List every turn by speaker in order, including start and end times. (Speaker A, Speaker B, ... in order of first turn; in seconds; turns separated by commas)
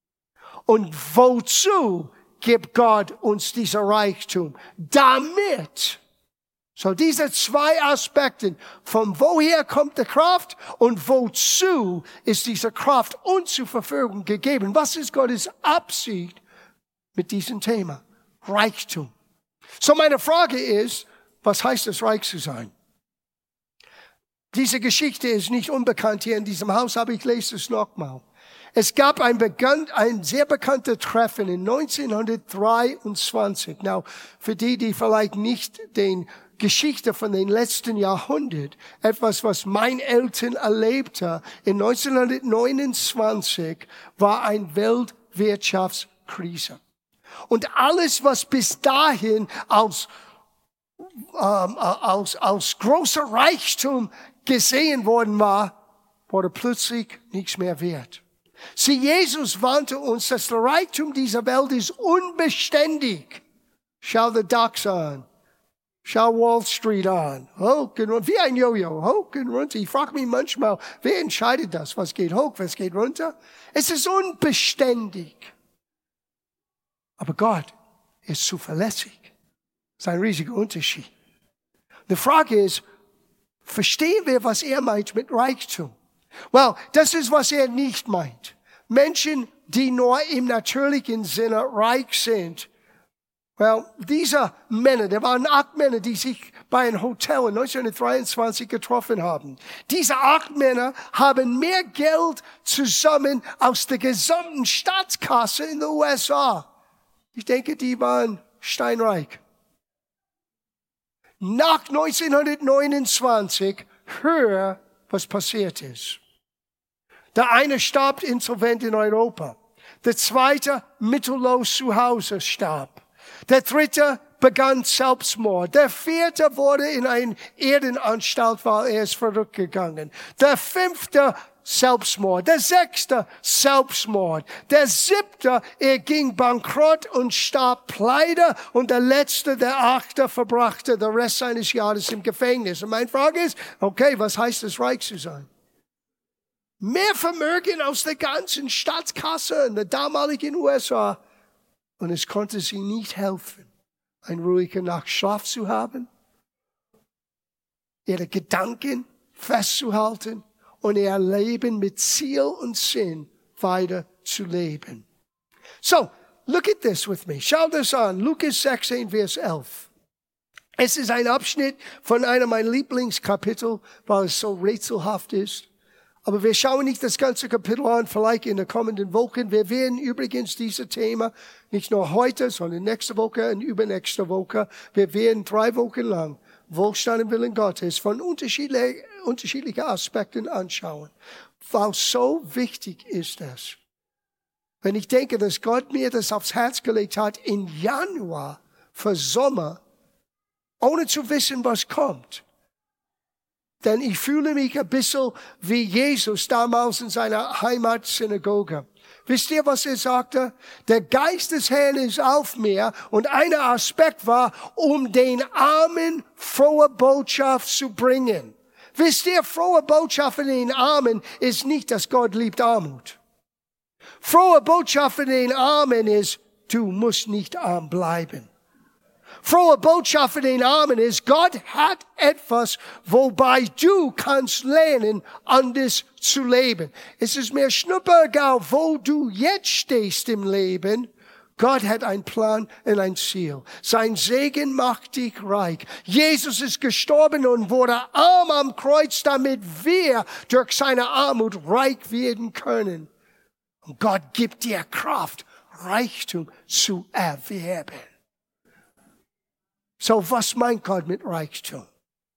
Speaker A: 0.7-6.0, Speaker A: 6.8-16.4, Speaker A: 17.1-19.1, Speaker A: 19.8-22.7, Speaker A: 24.5-46.8, Speaker A: 47.5-50.1, Speaker A: 51.3-55.7, Speaker A: 56.3-58.2, Speaker A: 58.8-63.4, Speaker A: 64.0-65.2, Speaker A: 66.0-75.5, Speaker A: 77.2-77.7, Speaker A: 78.2-79.3, Speaker A: 80.0-81.1, Speaker A: 82.1-82.8, Speaker A: 83.6-85.9, Speaker A: 86.5-92.7, Speaker A: 93.6-106.7, Speaker A: 107.3-109.4, Speaker A: 111.4-116.2, Speaker A: 117.3-145.5, Speaker A: 146.8-151.2, Speaker A: 152.0-153.7, Speaker A: 154.2-156.1, Speaker A: 158.1-165.0, Speaker A: 165.8-169.9, Speaker A: 170.8-175.7, Speaker A: 176.2-193.8, Speaker A: 194.8-199.8, Speaker A: 200.8-202.4, Speaker A: 203.8-223.2, Speaker A: 224.2-228.5, Speaker A: 229.4-253.1, Speaker A: 253.8-258.1, Speaker A: 260.0-261.9